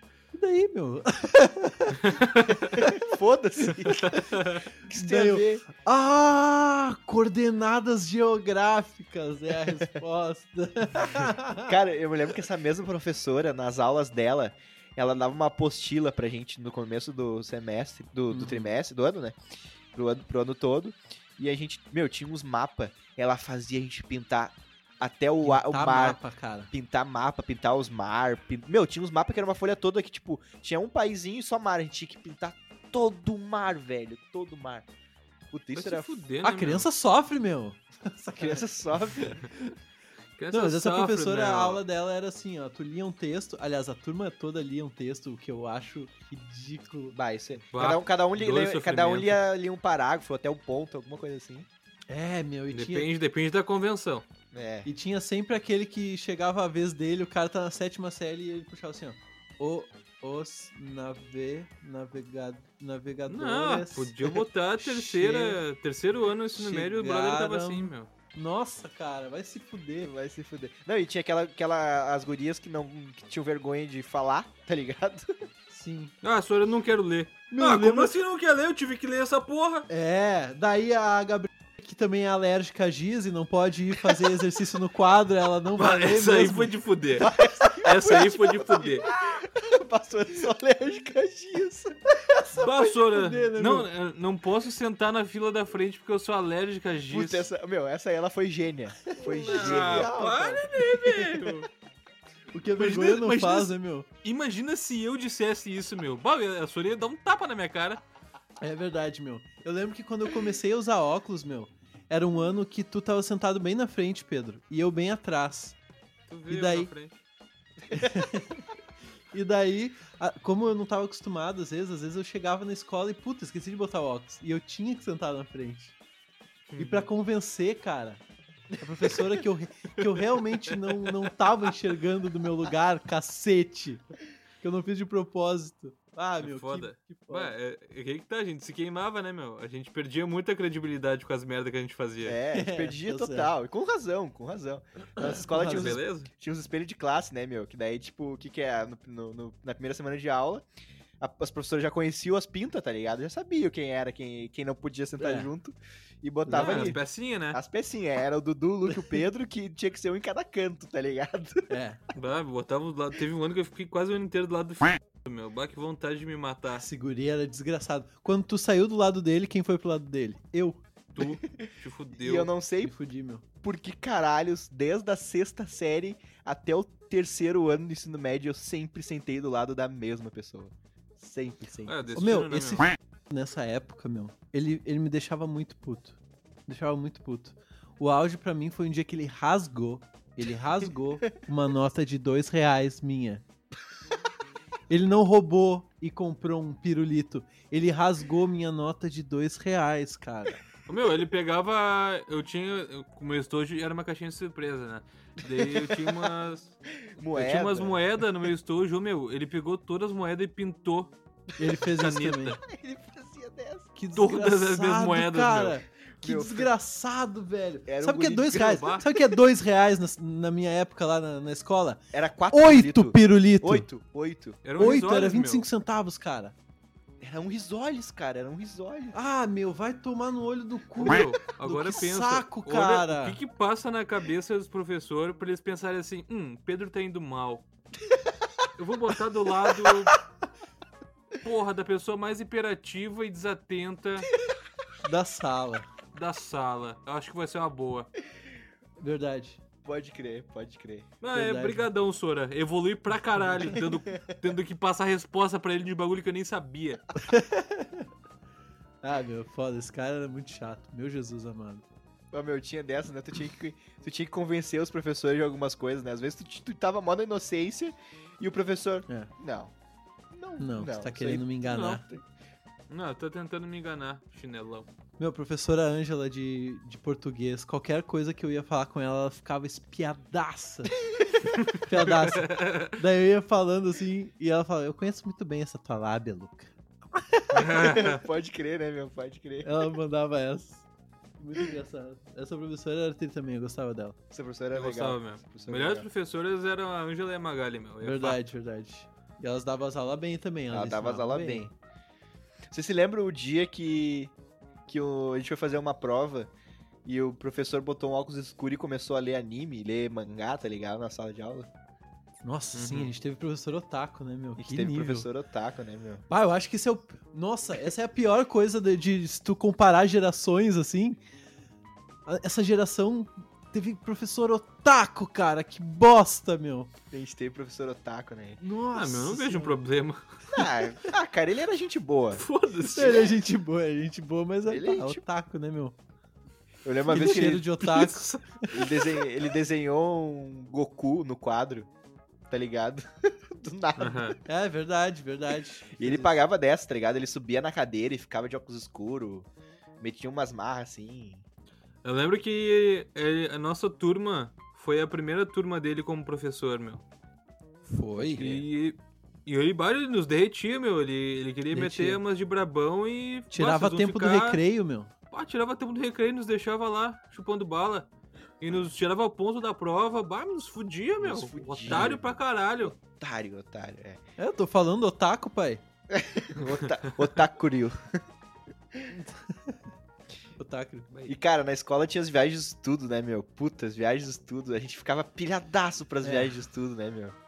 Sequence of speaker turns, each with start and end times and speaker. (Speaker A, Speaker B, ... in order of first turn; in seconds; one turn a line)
Speaker A: 0.3-2.1
Speaker B: 2.0-2.8
Speaker C: 2.7-4.3
Speaker B: 3.9-4.6
Speaker C: 4.8-5.6
Speaker A: 4.9-11.7
Speaker C: 11.2-19.4
Speaker A: 18.3-18.7
Speaker C: 19.9-26.2
Speaker A: 25.4-26.7
Speaker C: 26.7-34.9
Speaker C: 35.5-36.1
Speaker B: 35.7-36.9
Speaker A: 36.4-39.7
Speaker C: 38.4-39.4
Speaker B: 40.4-41.8
Speaker A: 40.5-47.1
Speaker C: 47.1-51.7
Speaker B: 47.7-49.4
Speaker A: 52.1-53.1
Speaker B: 52.7-54.2
Speaker C: 54.5-54.9
Speaker A: 54.9-64.1
Speaker B: 63.3-68.1
Speaker A: 64.8-65.6
Speaker A: 66.5-70.1
Speaker C: 70.0-75.3
Speaker A: 75.7-76.1
Speaker B: 76.2-79.9
Speaker A: 77.5-78.1
Speaker A: 79.9-86.7
Speaker B: 85.8-89.0
Speaker C: 87.2-92.4
Speaker A: 92.3-93.9
Speaker B: 92.6-97.5
Speaker C: 97.1-100.6
Speaker A: 99.0-101.5
Speaker B: 99.2-101.7
Speaker A: 102.5-104.1
Speaker B: 102.8-103.7
Speaker B: 104.2-108.0
Speaker A: 108.6-115.8
Speaker B: 116.3-117.2
Speaker A: 116.5-116.9
Speaker C: 117.9-118.2
Speaker A: 117.9-118.7
Speaker A: 119.3-126.0
Speaker B: 126.7-127.1
Speaker A: 126.8-128.2
Speaker A: 128.8-134.0
Speaker A: 134.6-137.5
Speaker B: 136.4-142.4
Speaker C: 142.2-150.6
Speaker A: 142.5-143.5
Speaker A: 145.2-146.0
Speaker B: 145.6-146.3
Speaker C: 151.2-161.7
Speaker A: 155.2-155.5
Speaker A: 156.5-157.0
Speaker B: 156.5-157.6
Speaker A: 161.7-162.0
Speaker B: 162.1-166.8
Speaker A: 166.7-170.8
Speaker B: 171.1-172.5
Speaker C: 172.1-172.9
Speaker A: 172.8-173.4
Speaker C: 173.6-182.0
Speaker B: 181.8-182.9
Speaker A: 182.1-193.4
Speaker A: 194.9-200.6
Speaker B: 200.9-206.7
Speaker C: 205.9-206.3
Speaker C: 207.2-208.0
Speaker B: 207.3-211.1
Speaker A: 211.6-212.6
Speaker B: 211.8-212.6
Speaker C: 212.6-213.9
Speaker A: 214.0-223.9
Speaker B: 214.1-215.8
Speaker C: 216.2-216.7
Speaker C: 217.9-219.3
Speaker B: 218.6-219.0
Speaker C: 222.1-224.6
Speaker B: 224.6-225.7
Speaker A: 224.8-226.5
Speaker C: 227.2-229.1
Speaker A: 229.1-233.4
Speaker B: 231.0-237.6
Speaker B: 238.8-240.1
Speaker B: 241.4-244.3
Speaker A: 245.0-245.9
Speaker B: 246.1-248.1
Speaker A: 249.0-249.6
Speaker C: 249.8-251.1
Speaker B: 251.2-257.0
Speaker A: 251.3-251.9
Speaker C: 253.8-254.4
Speaker A: 257.2-258.1
Speaker A: 259.0-261.8
Speaker C: 262.3-269.7
Speaker C: 270.3-272.2
Speaker A: 270.6-272.0
Speaker B: 271.6-272.0
Speaker B: 272.9-274.9
Speaker A: 275.2-281.0
Speaker C: 281.0-281.5
Speaker A: 281.5-287.6
Speaker B: 281.6-282.9
Speaker B: 287.5-288.2
Speaker C: 287.6-289.9
Speaker A: 289.6-290.9
Speaker A: 291.4-294.2
Speaker C: 294.3-296.1
Speaker B: 294.7-298.4
Speaker A: 298.0-301.7
Speaker C: 300.7-301.7
Speaker C: 302.7-304.3
Speaker C: 304.9-306.5
Speaker C: 307.0-311.7
Speaker A: 312.4-315.3
Speaker B: 312.7-313.1
Speaker C: 314.6-316.2
Speaker A: 316.3-321.2
Speaker A: 322.2-326.9
Speaker C: 327.1-328.6
Speaker A: 328.6-329.8
Speaker B: 328.9-330.2
Speaker C: 330.5-332.4
Speaker B: 332.3-333.3
Speaker A: 332.9-335.9
Speaker C: 332.9-333.3
Speaker C: 334.7-335.2
Speaker C: 336.8-337.7
Speaker A: 337.1-338.9
Speaker B: 337.2-339.1
Speaker C: 338.7-341.9
Speaker C: 342.5-344.4
Speaker B: 344.0-344.4
Speaker A: 344.4-346.4
Speaker C: 346.0-349.5
Speaker C: 350.0-351.4
Speaker B: 352.0-357.0
Speaker A: 357.9-358.6
Speaker B: 358.2-364.6
Speaker A: 361.7-362.2
Speaker A: 363.5-365.1
Speaker B: 365.3-373.0
Speaker C: 371.2-374.2
Speaker A: 371.9-372.2
Speaker A: 374.4-375.8
Speaker C: 376.1-378.2
Speaker A: 379.1-379.8
Speaker A: 380.6-381.1
Speaker B: 381.1-381.4
Speaker C: 381.3-387.4
Speaker A: 386.2-386.5